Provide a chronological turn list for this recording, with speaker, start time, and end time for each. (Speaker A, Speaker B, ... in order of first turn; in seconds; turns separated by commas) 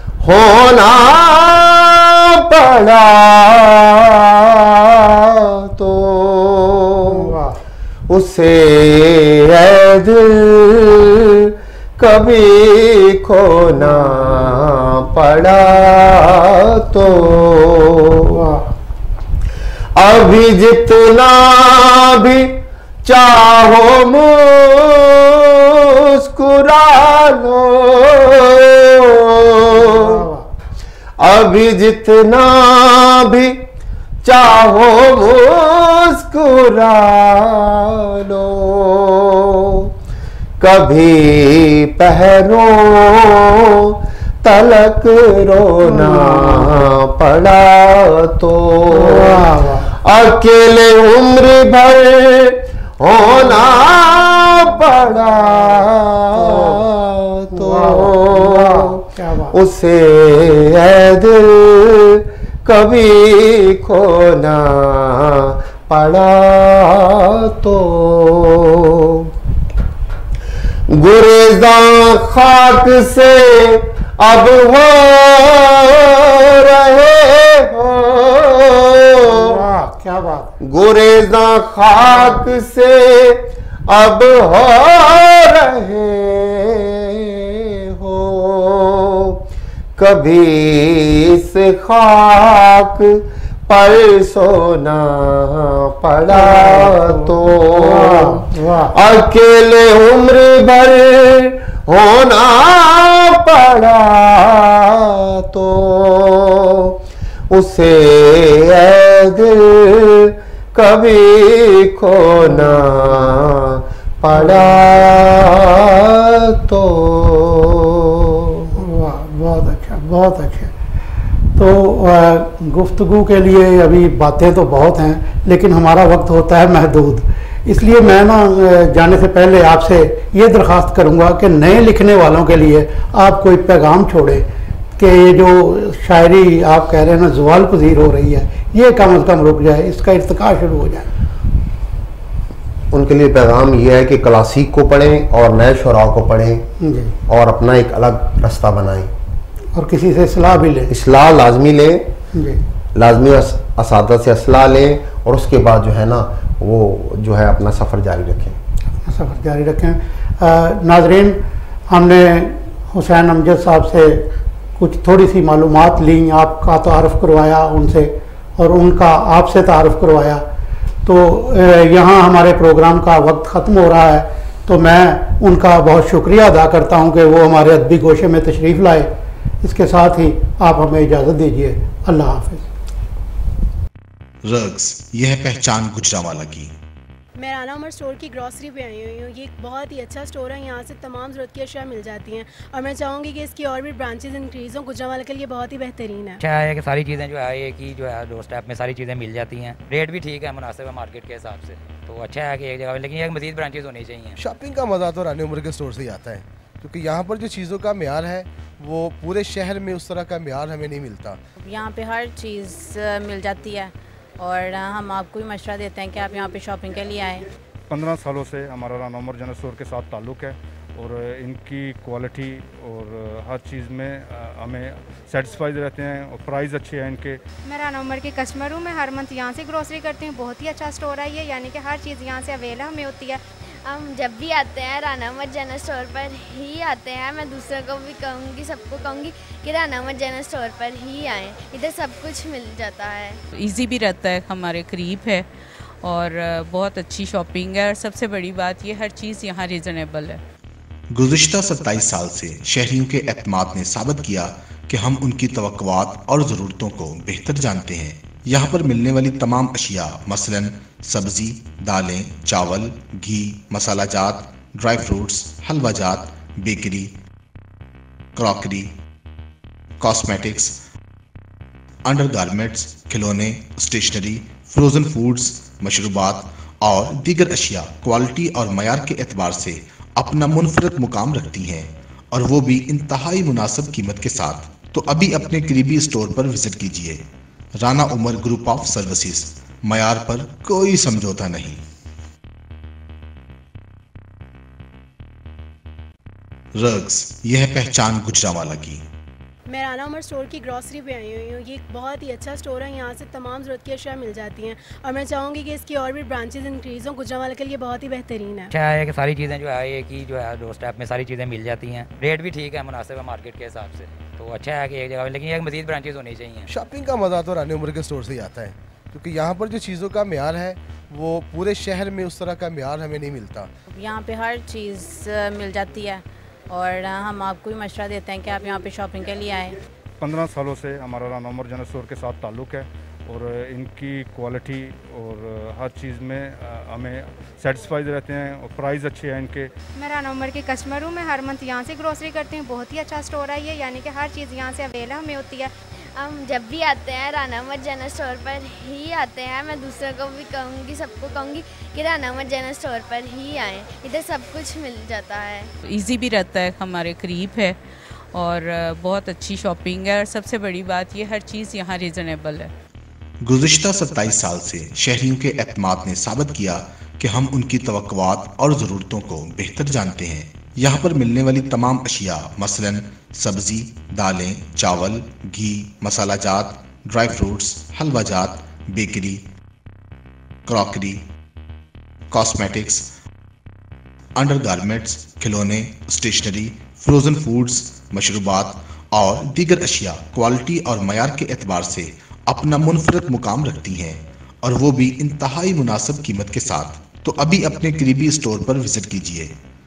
Speaker A: 0.2-7.4, Speaker B: 7.1-7.6, Speaker A: 8.1-18.4, Speaker B: 18.3-18.7, Speaker A: 20.0-30.3, Speaker B: 29.7-30.5, Speaker A: 31.2-33.6, Speaker A: 34.2-39.9, Speaker A: 40.6-69.3, Speaker B: 45.8-46.8, Speaker B: 48.9-49.9, Speaker B: 56.3-56.9, Speaker B: 57.5-59.6, Speaker A: 70.9-79.6, Speaker B: 79.2-80.5, Speaker A: 80.6-89.4, Speaker A: 90.0-107.0, Speaker B: 96.3-98.9, Speaker A: 107.5-118.8, Speaker B: 112.5-113.0, Speaker B: 114.3-114.8, Speaker B: 118.7-120.7, Speaker B: 121.5-134.5, Speaker B: 135.0-141.1, Speaker A: 142.9-146.7, Speaker B: 146.8-147.2, Speaker A: 147.3-149.1, Speaker B: 149.7-150.9, Speaker A: 150.9-152.1, Speaker B: 152.3-152.6, Speaker A: 152.9-158.6, Speaker B: 159.0-170.4, Speaker B: 171.1-179.1, Speaker B: 179.6-182.7, Speaker C: 184.4-186.7, Speaker D: 187.4-196.4, Speaker E: 196.4-204.4, Speaker F: 204.4-211.4, Speaker G: 211.6-217.5, Speaker H: 217.9-227.4, Speaker I: 227.7-233.4, Speaker J: 233.8-243.4, Speaker K: 243.6-245.5, Speaker K: 246.0-250.4, Speaker C: 251.1-267.1, Speaker C: 268.4-268.9, Speaker C: 270.0-270.8, Speaker C: 272.1-287.2, Speaker C: 287.8-291.8, Speaker C: 296.7-299.0, Speaker D: 299.7-308.7, Speaker E: 308.7-316.7, Speaker F: 316.7-323.7, Speaker G: 323.9-329.8, Speaker H: 330.2-339.7, Speaker I: 339.9-345.7, Speaker J: 346.2-355.7, Speaker K: 355.9-357.8, Speaker K: 358.3-362.7, Speaker C: 363.4-379.4, Speaker C: 380.7-381.2, Speaker C: 382.3-383.1, Speaker C: 384.4-399.5